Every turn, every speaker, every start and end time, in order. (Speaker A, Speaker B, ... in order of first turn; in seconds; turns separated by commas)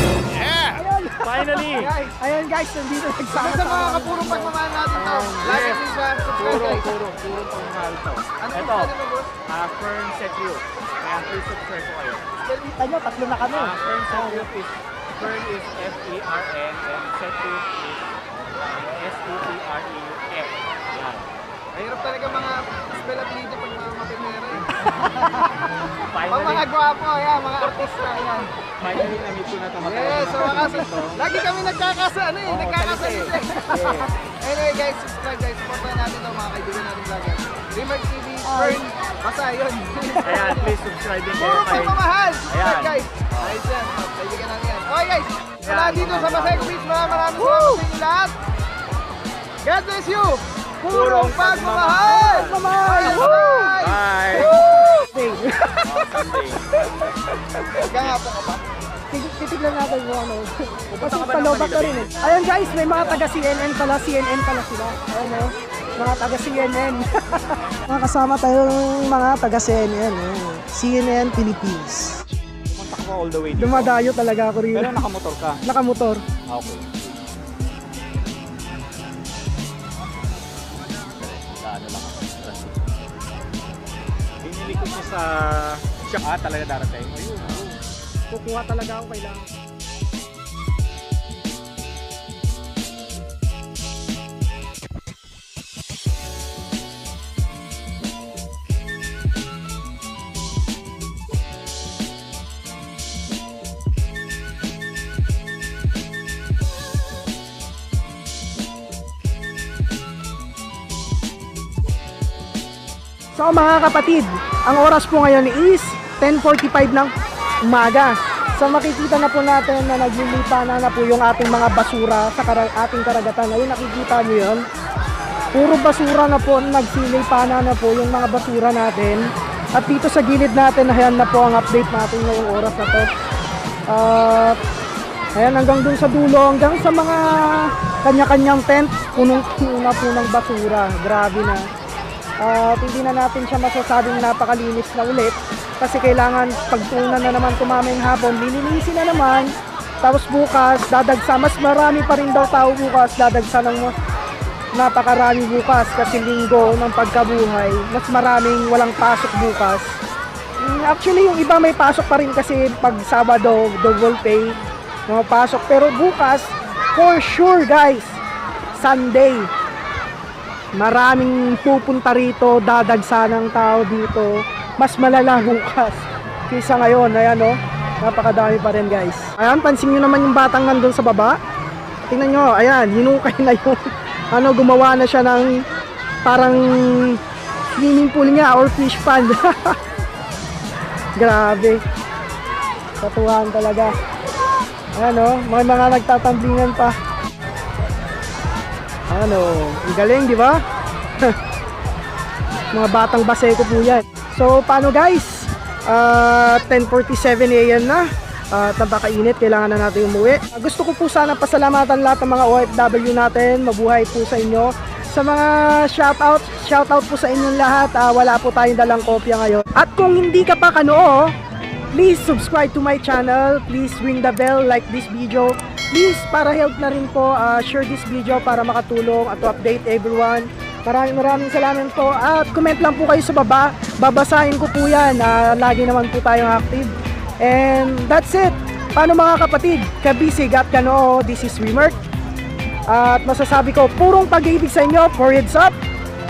Speaker A: 0.3-1.9, Speaker B: 0.7-5.5, Speaker C: 1.8-2.1, Speaker C: 3.4-6.9, Speaker A: 5.4-5.8, Speaker A: 6.4-8.9, Speaker B: 6.4-6.8, Speaker C: 8.4-9.3, Speaker A: 9.5-12.2, Speaker B: 12.6-14.5, Speaker A: 13.5-21.3, Speaker C: 21.7-24.6, Speaker B: 24.8-25.7, Speaker A: 26.0-26.7, Speaker C: 26.3-28.5, Speaker A: 28.8-31.2, Speaker C: 29.8-40.7, Speaker B: 30.4-30.7, Speaker A: 32.4-34.1, Speaker B: 33.4-33.9, Speaker B: 38.4-38.8, Speaker A: 40.2-43.6, Speaker C: 41.4-48.3, Speaker A: 45.6-47.1, Speaker B: 47.3-47.9, Speaker C: 49.6-50.4, Speaker B: 50.8-51.3, Speaker A: 50.9-54.8, Speaker C: 51.0-54.6, Speaker B: 51.9-53.8, Speaker B: 54.3-57.9, Speaker A: 55.8-56.6, Speaker A: 57.9-58.2, Speaker C: 57.9-58.6, Speaker B: 59.1-72.2, Speaker A: 60.9-62.1, Speaker A: 72.7-73.9, Speaker B: 73.5-75.0, Speaker A: 74.7-75.6, Speaker B: 75.7-76.2, Speaker A: 76.5-77.1, Speaker A: 81.2-82.7, Speaker A: 84.4-87.7, Speaker B: 88.3-89.5, Speaker B: 113.3-117.1, Speaker B: 117.7-124.6, Speaker B: 125.5-129.2, Speaker B: 129.7-133.1, Speaker B: 133.9-134.6, Speaker B: 135.3-141.6, Speaker B: 142.4-153.9, Speaker B: 154.8-159.8, Speaker B: 160.6-164.6, Speaker B: 165.1-168.2, Speaker B: 168.7-169.5, Speaker B: 170.8-181.4, Speaker B: 182.1-185.6, Speaker B: 186.2-187.2, Speaker B: 187.7-189.8, Speaker B: 191.2-191.8, Speaker B: 193.0-193.9, Speaker B: 194.9-196.9, Speaker B: 199.1-200.6, Speaker B: 202.7-221.3, Speaker B: 221.9-236.9, Speaker B: 237.4-242.0, Speaker B: 242.9-245.8